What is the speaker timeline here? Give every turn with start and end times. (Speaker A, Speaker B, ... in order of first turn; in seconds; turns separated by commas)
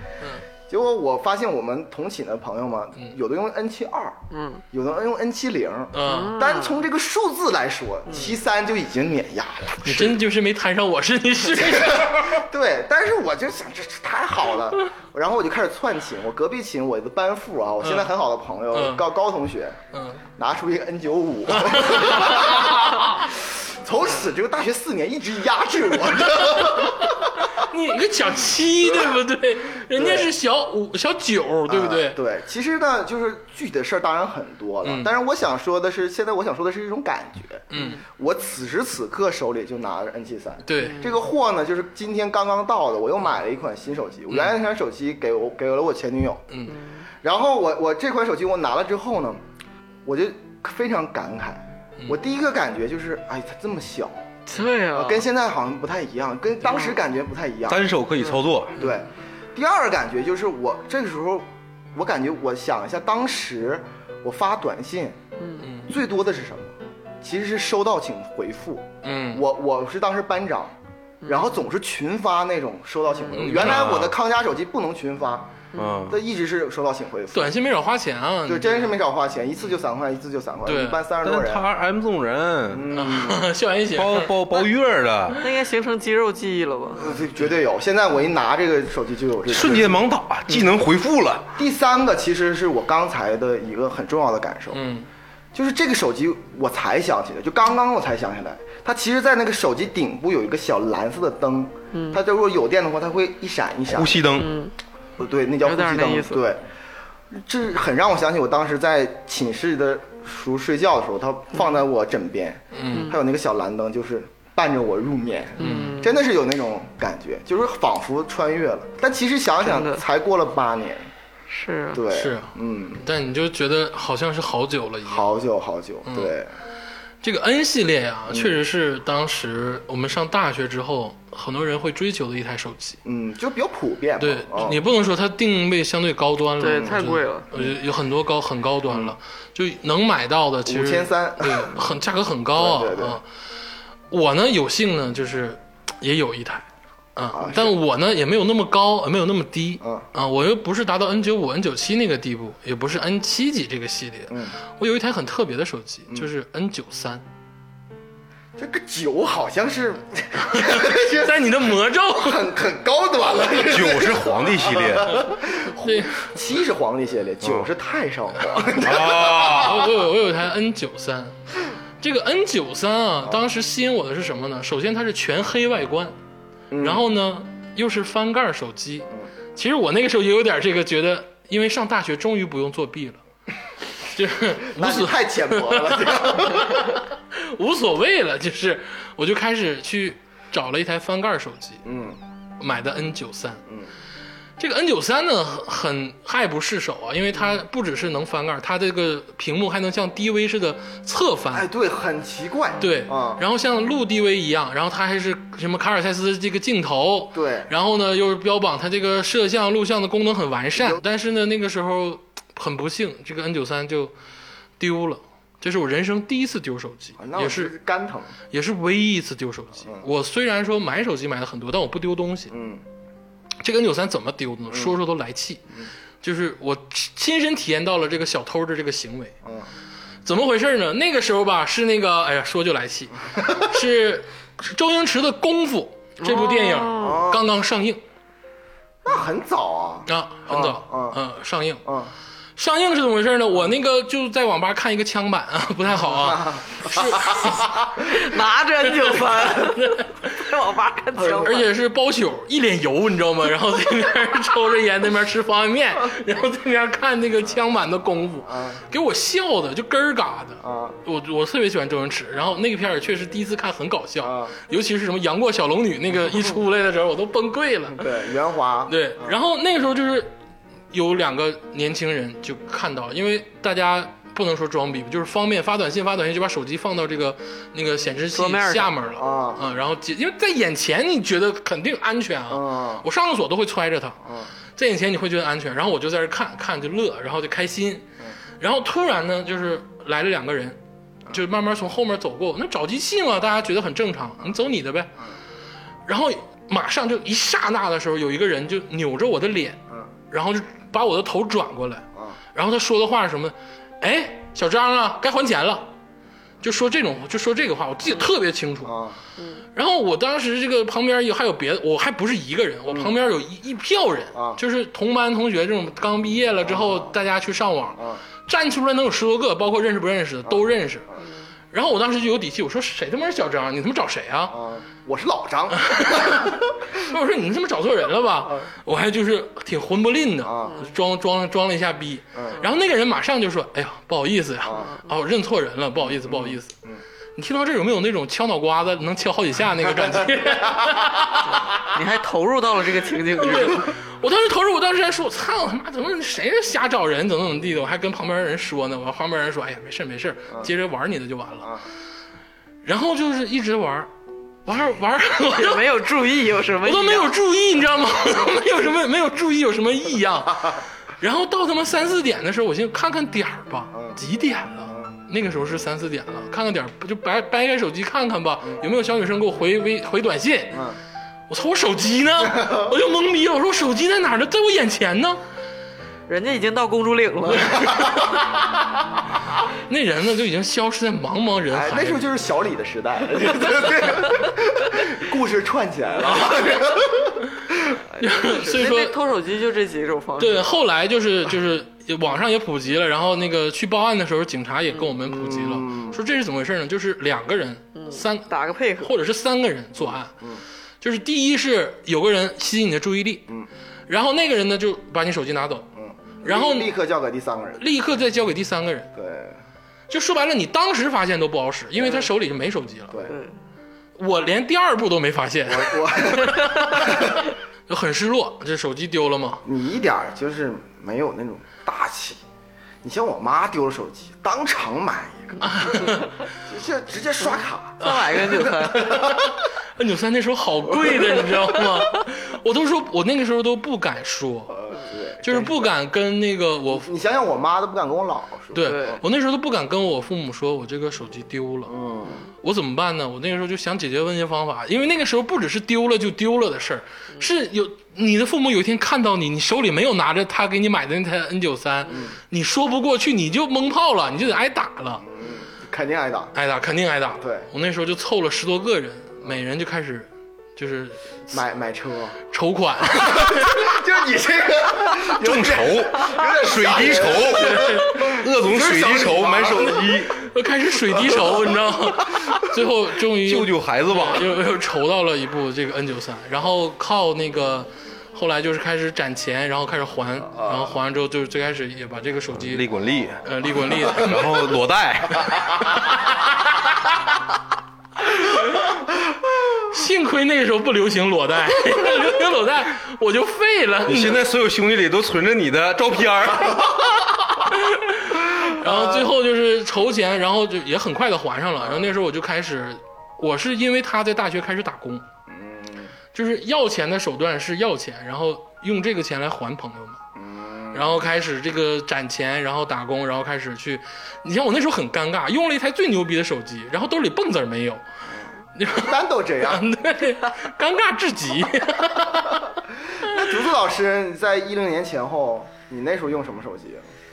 Speaker A: 0.7-4.2, Speaker B: 4.3-4.6, Speaker A: 4.7-10.2, Speaker C: 5.9-6.3, Speaker B: 6.0-6.8, Speaker B: 8.1-8.3, Speaker C: 9.8-12.4, Speaker A: 11.5-19.8, Speaker C: 17.8-18.1, Speaker C: 18.7-19.0, Speaker C: 19.9-20.2, Speaker A: 20.4-27.5, Speaker C: 21.5-23.2, Speaker C: 26.4-32.2, Speaker A: 29.9-30.3, Speaker A: 31.7-46.4, Speaker C: 37.7-38.0, Speaker B: 37.7-38.0, Speaker C: 40.7-41.0, Speaker B: 40.8-41.2, Speaker C: 44.3-44.5, Speaker B: 46.7-47.0, Speaker A: 47.2-49.4, Speaker A: 50.0-54.2, Speaker B: 54.5-55.2, Speaker A: 54.9-57.9, Speaker B: 56.7-57.0, Speaker D: 57.7-58.8, Speaker B: 58.2-59.0, Speaker A: 58.8-65.2, Speaker B: 65.4-65.7, Speaker C: 65.6-65.9, Speaker A: 65.9-77.5, Speaker C: 69.0-69.4, Speaker B: 71.2-71.5, Speaker C: 73.3-74.0, Speaker D: 73.6-74.1, Speaker B: 75.7-76.0, Speaker D: 75.7-76.2, Speaker C: 77.3-78.9, Speaker A: 78.5-81.6, Speaker C: 80.6-81.0, Speaker D: 81.2-82.9, Speaker A: 82.7-83.4, Speaker C: 82.9-84.3, Speaker D: 83.9-85.4, Speaker B: 85.4-87.1, Speaker A: 87.0-90.0, Speaker D: 89.5-91.5, Speaker A: 91.6-94.8, Speaker C: 94.7-95.1, Speaker A: 95.5-104.3, Speaker B: 101.9-102.2, Speaker D: 103.9-104.5, Speaker B: 104.4-104.7, Speaker A: 105.2-106.6, Speaker B: 105.6-106.4, Speaker A: 107.3-121.1, Speaker C: 112.7-113.1, Speaker B: 112.9-113.2, Speaker B: 115.6-116.2, Speaker C: 115.6-115.9, Speaker B: 119.6-120.0, Speaker B: 121.5-122.0, Speaker A: 121.9-123.0, Speaker C: 122.1-125.3, Speaker A: 125.0-126.5, Speaker C: 126.0-126.3, Speaker C: 127.2-133.0, Speaker A: 128.3-128.6, Speaker A: 133.0-134.8, Speaker C: 134.2-143.2, Speaker B: 136.6-137.5, Speaker A: 136.7-136.9, Speaker A: 138.9-139.1, Speaker A: 140.7-141.9, Speaker A: 142.5-143.2, Speaker C: 144.1-157.2, Speaker A: 147.3-147.8, Speaker A: 149.8-150.1, Speaker A: 154.3-154.6, Speaker A: 158.6-169.6, Speaker C: 160.5-162.4, Speaker D: 163.5-165.2, Speaker C: 165.8-166.3, Speaker D: 168.7-169.8, Speaker C: 169.4-171.4, Speaker C: 172.0-176.1, Speaker A: 176.7-177.0, Speaker C: 176.8-183.2, Speaker C: 184.1-191.8, Speaker A: 184.6-186.9, Speaker A: 191.8-192.2, Speaker C: 192.6-193.6, Speaker C: 194.6-201.7, Speaker A: 201.5-203.4, Speaker C: 202.8-214.1, Speaker A: 207.3-207.7, Speaker A: 210.8-211.0, Speaker C: 214.8-217.7, Speaker A: 217.2-218.3, Speaker C: 218.5-222.5, Speaker A: 222.5-222.8, Speaker C: 223.6-225.6, Speaker C: 226.2-229.3, Speaker C: 230.2-238.0, Speaker B: 236.2-237.2, Speaker A: 237.0-237.5, Speaker A: 239.0-241.2, Speaker C: 240.1-241.8, Speaker A: 241.8-242.1, Speaker C: 242.6-247.7, Speaker A: 245.9-248.1, Speaker B: 248.0-251.7, Speaker C: 249.1-250.3, Speaker A: 251.2-251.5, Speaker C: 251.4-268.1, Speaker A: 258.5-258.8, Speaker A: 260.6-261.0, Speaker A: 264.2-264.5, Speaker A: 267.9-269.4, Speaker C: 268.9-270.3, Speaker C: 270.9-284.2, Speaker B: 278.3-278.9, Speaker A: 279.2-279.6, Speaker A: 282.5-283.1, Speaker A: 284.2-284.5, Speaker C: 284.8-288.1, Speaker C: 288.6-290.8, Speaker C: 291.3-295.1, Speaker C: 296.1-305.9, Speaker C: 306.6-309.0, Speaker A: 308.8-309.2, Speaker B: 309.4-309.6, Speaker C: 309.7-321.1, Speaker A: 312.9-313.1, Speaker A: 314.3-314.6, Speaker A: 316.6-317.1, Speaker A: 320.4-321.2, Speaker C: 321.7-324.6, Speaker A: 324.5-326.8, Speaker C: 325.7-336.7, Speaker A: 330.4-330.8, Speaker A: 332.3-332.6, Speaker A: 334.6-334.9, Speaker A: 336.1-337.0, Speaker C: 337.4-341.6, Speaker A: 340.0-341.1, Speaker B: 341.8-343.9, Speaker C: 343.4-351.7, Speaker C: 352.8-354.1, Speaker C: 354.6-355.9, Speaker B: 355.5-357.3, Speaker C: 356.8-370.9, Speaker A: 363.9-364.2, Speaker A: 364.9-365.1, Speaker C: 371.5-375.4, Speaker A: 372.4-372.9, Speaker B: 376.3-377.9, Speaker C: 377.7-378.6, Speaker C: 379.9-382.2, Speaker A: 381.7-387.9, Speaker B: 388.1-390.7, Speaker C: 388.2-389.1, Speaker C: 390.4-398.5, Speaker A: 395.2-396.2, Speaker B: 397.9-399.1, Speaker C: 399.0-400.4, Speaker A: 400.0-400.6, Speaker C: 401.0-403.5, Speaker C: 404.1-405.9, Speaker A: 405.9-407.8, Speaker C: 406.4-406.9, Speaker C: 407.8-409.1, Speaker A: 409.1-409.6, Speaker C: 410.1-413.2, Speaker B: 413.3-413.5, Speaker C: 414.2-419.6, Speaker A: 415.6-417.4, Speaker A: 419.6-422.4, Speaker A: 423.0-428.1, Speaker C: 425.6-426.3, Speaker B: 427.5-429.2, Speaker C: 428.0-434.8, Speaker A: 428.9-429.5, Speaker A: 434.7-435.9, Speaker C: 435.4-437.1, Speaker A: 436.9-439.2, Speaker C: 438.7-441.9, Speaker B: 438.8-439.2, Speaker A: 441.9-442.4, Speaker C: 442.6-455.2, Speaker A: 452.1-452.4, Speaker A: 455.2-456.5, Speaker C: 456.5-461.6, Speaker A: 457.4-457.7, Speaker A: 461.5-462.4, Speaker C: 462.5-463.9, Speaker A: 463.1-470.2, Speaker D: 465.3-470.4, Speaker C: 467.5-468.3, Speaker C: 469.7-482.9, Speaker A: 471.2-471.6, Speaker D: 473.4-474.5, Speaker A: 480.6-480.9, Speaker D: 482.6-486.0, Speaker C: 483.4-484.5, Speaker C: 485.5-487.1, Speaker C: 488.2-489.0, Speaker C: 489.7-494.4, Speaker D: 494.1-497.0, Speaker C: 497.6-505.2, Speaker A: 498.8-499.2, Speaker A: 501.8-502.1, Speaker A: 505.5-506.1, Speaker C: 506.3-510.2, Speaker A: 510.4-511.2, Speaker C: 510.9-518.0, Speaker A: 518.3-519.9, Speaker C: 518.8-522.7, Speaker A: 523.2-527.0